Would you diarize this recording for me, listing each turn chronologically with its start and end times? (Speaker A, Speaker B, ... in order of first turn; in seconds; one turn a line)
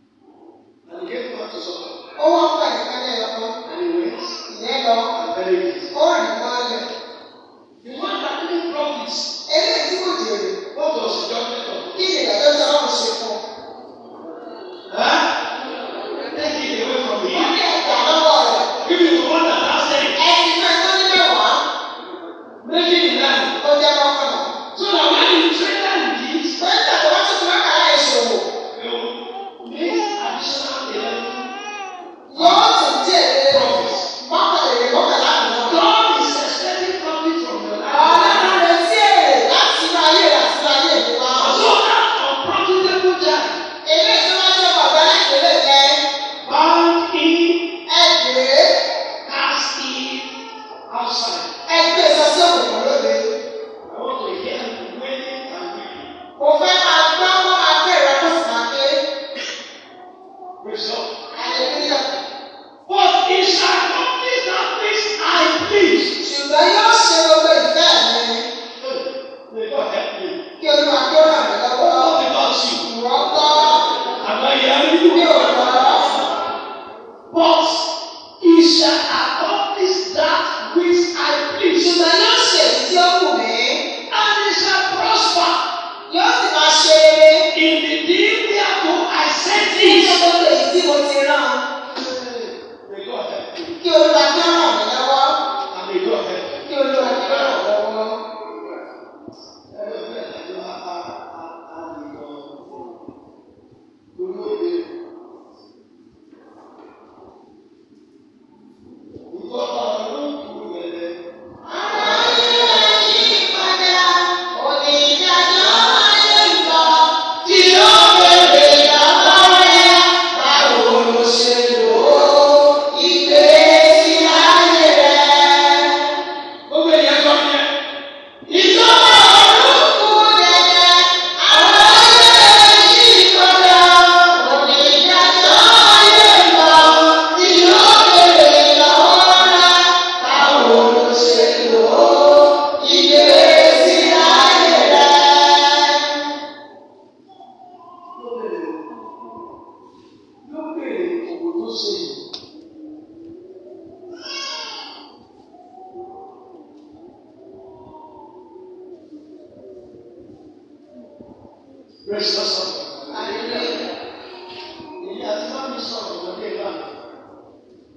Speaker A: 0.8-1.9
Speaker B: 2.2-3.6
Speaker A: 3.6-4.4
Speaker B: 4.5-5.1
Speaker A: 5.1-5.9
Speaker B: 5.9-6.9
Speaker A: 7.8-9.3
Speaker B: 9.5-10.6
Speaker A: 10.7-12.0
Speaker B: 11.9-13.4
Speaker A: 14.9-15.2
Speaker A: 16.3-17.5
Speaker B: 17.3-18.7
Speaker A: 18.8-20.2
Speaker B: 20.1-21.6
Speaker A: 22.6-23.5
Speaker B: 23.6-24.6
Speaker A: 24.7-26.6
Speaker B: 26.6-28.5
Speaker A: 28.7-31.5
Speaker B: 32.3-35.8
Speaker A: 32.3-32.7
Speaker A: 33.5-34.1
Speaker A: 35.6-38.6
Speaker B: 37.9-41.7
Speaker A: 41.3-43.6
Speaker B: 43.8-46.0
Speaker A: 46.4-47.6
Speaker B: 47.9-48.7
Speaker A: 49.2-50.3
Speaker A: 50.9-51.5
Speaker B: 51.7-53.3
Speaker A: 53.8-56.1
Speaker B: 56.4-59.0
Speaker A: 60.6-61.1
Speaker B: 61.3-62.2
Speaker A: 62.9-66.1
Speaker B: 66.2-68.5
Speaker A: 68.8-70.4
Speaker B: 70.6-72.2
Speaker A: 71.8-72.8
Speaker B: 72.8-73.8
Speaker A: 74.2-76.0
Speaker B: 75.1-76.2
Speaker A: 77.3-77.9
Speaker A: 78.4-81.9
Speaker B: 81.8-83.8
Speaker A: 84.1-85.6
Speaker B: 86.1-87.5
Speaker A: 87.5-90.2
Speaker B: 89.5-91.6
Speaker A: 91.9-93.8
Speaker B: 93.8-95.4
Speaker A: 95.7-97.6
Speaker B: 96.6-98.2
Speaker A: 99.7-102.6
Speaker A: 104.1-104.9
Speaker A: 109.3-111.2
Speaker B: 111.6-126.0
Speaker A: 111.9-113.4
Speaker A: 115.6-116.0
Speaker A: 117.4-119.8
Speaker A: 120.5-122.1
Speaker A: 126.7-127.7
Speaker A: 128.5-129.8
Speaker B: 128.5-146.2
Speaker A: 131.5-134.3
Speaker A: 135.4-138.6
Speaker A: 140.3-145.1
Speaker A: 148.1-148.8
Speaker A: 150.4-152.2
Speaker A: 162.0-163.8
Speaker B: 163.1-163.8
Speaker A: 165.0-166.9